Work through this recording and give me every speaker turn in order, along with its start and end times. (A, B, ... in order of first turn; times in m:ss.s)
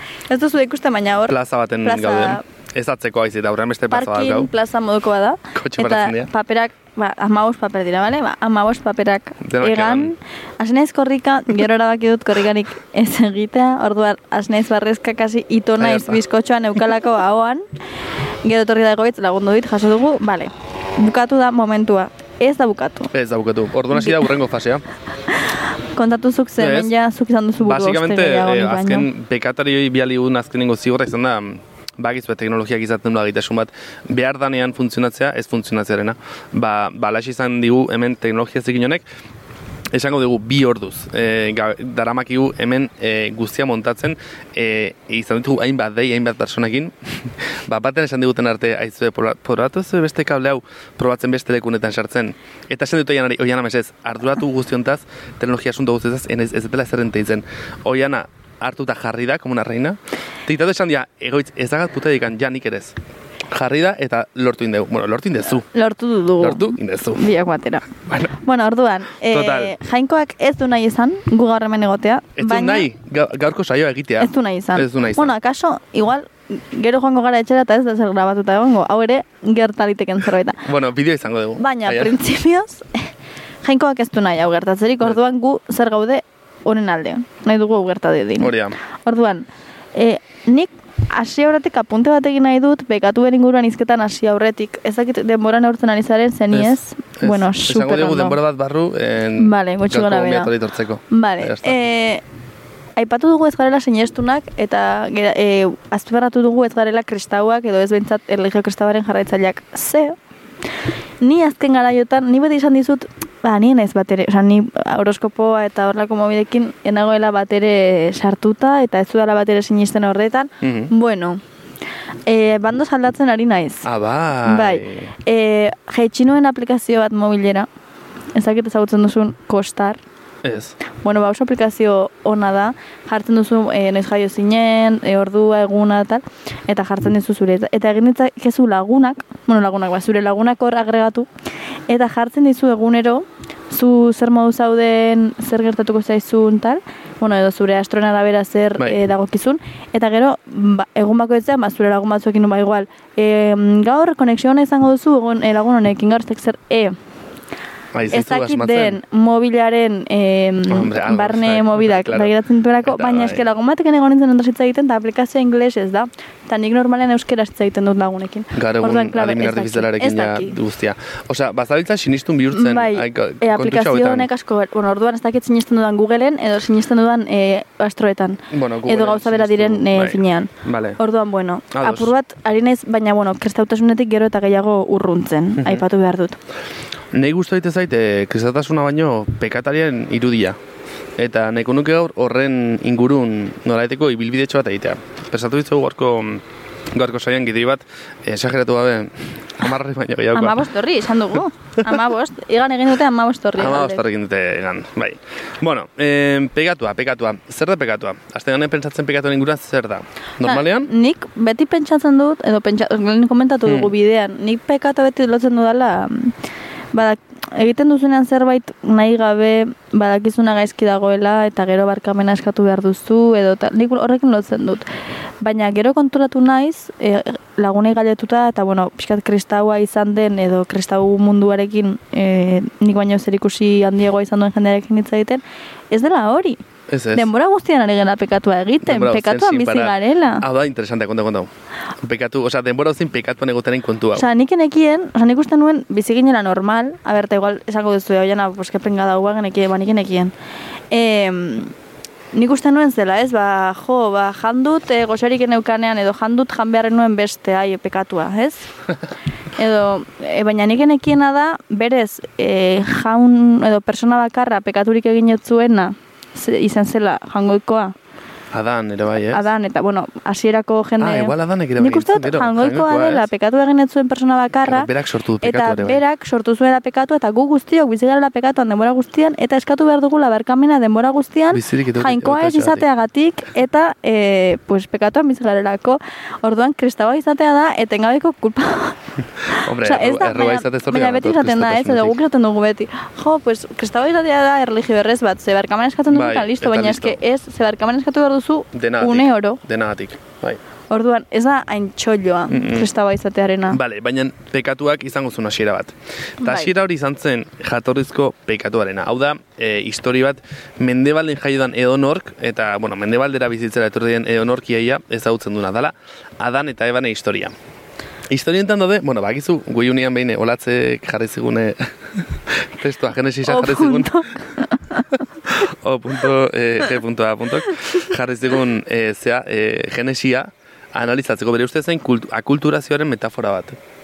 0:00.3-0:02.4 A
0:01.3-0:04.5 B
0:03.9-0:17.6 A
0:05.6-0:06.3 B
0:09.4-0:10.2 B
0:15.8-0:16.2 B
0:18.4-0:23.1 A
0:23.1-0:24.8 B
0:24.0-0:24.2 A
0:26.0-0:29.1 A
0:26.6-0:26.9 B
0:27.6-0:39.0 B
0:39.9-1:03.0 B
1:03.5-1:05.7 B
1:05.7-1:07.9 A
1:06.4-1:07.2 B
1:08.4-1:12.9 A
1:09.3-1:09.7 B
1:12.4-1:15.3 B
1:14.2-1:20.6 A
1:20.6-1:22.2 B
1:21.6-1:22.9 A
1:23.6-1:38.4 A
1:28.4-1:28.8 B
1:36.5-1:41.8 B
1:39.4-1:40.5 A
1:41.1-1:42.2 A
1:43.0-1:50.2 A
1:51.2-2:01.4 A
2:00.6-2:00.9 B
2:02.3-2:03.9 A
2:03.8-2:05.1 B
2:04.4-2:07.7 A
2:08.4-2:10.0 A
2:10.4-2:10.8 B
2:11.0-2:21.3 A
2:21.9-2:37.0 A
2:37.9-2:39.0 B
2:38.1-2:50.6 A
2:40.7-2:43.4 B
2:48.6-2:54.3 B
2:52.5-3:06.4 A
2:58.5-3:01.0 B
3:01.7-3:02.1 B
3:05.6-3:05.8 B
3:07.1-3:10.6 B
3:11.2-3:20.6 B
3:20.3-3:24.0 A
3:23.6-3:30.9 B
3:30.4-3:36.3 A
3:33.6-3:33.9 B
3:36.9-3:44.9 A
3:45.4-3:56.6 A
3:56.9-3:57.3 B
3:57.1-4:00.4 A
3:58.8-4:01.5 B
4:02.0-4:04.3 B
4:04.1-4:10.3 A
4:10.9-4:11.7 A
4:12.4-4:18.7 A
4:19.6-4:27.9 A
4:28.5-4:29.4 B
4:29.3-4:34.9 A
4:31.0-4:33.3 B
4:34.6-4:36.0 B
4:35.4-4:59.6 A
4:41.5-4:42.8 B
4:49.5-4:52.2 B
4:56.1-4:57.2 B
4:58.7-5:00.6 B
5:00.9-5:03.8 A
5:02.5-5:02.9 B
5:03.7-5:17.5 B
5:06.4-5:06.7 A
5:18.3-5:24.2 B
5:23.5-5:25.1 A
5:25.5-5:33.8 B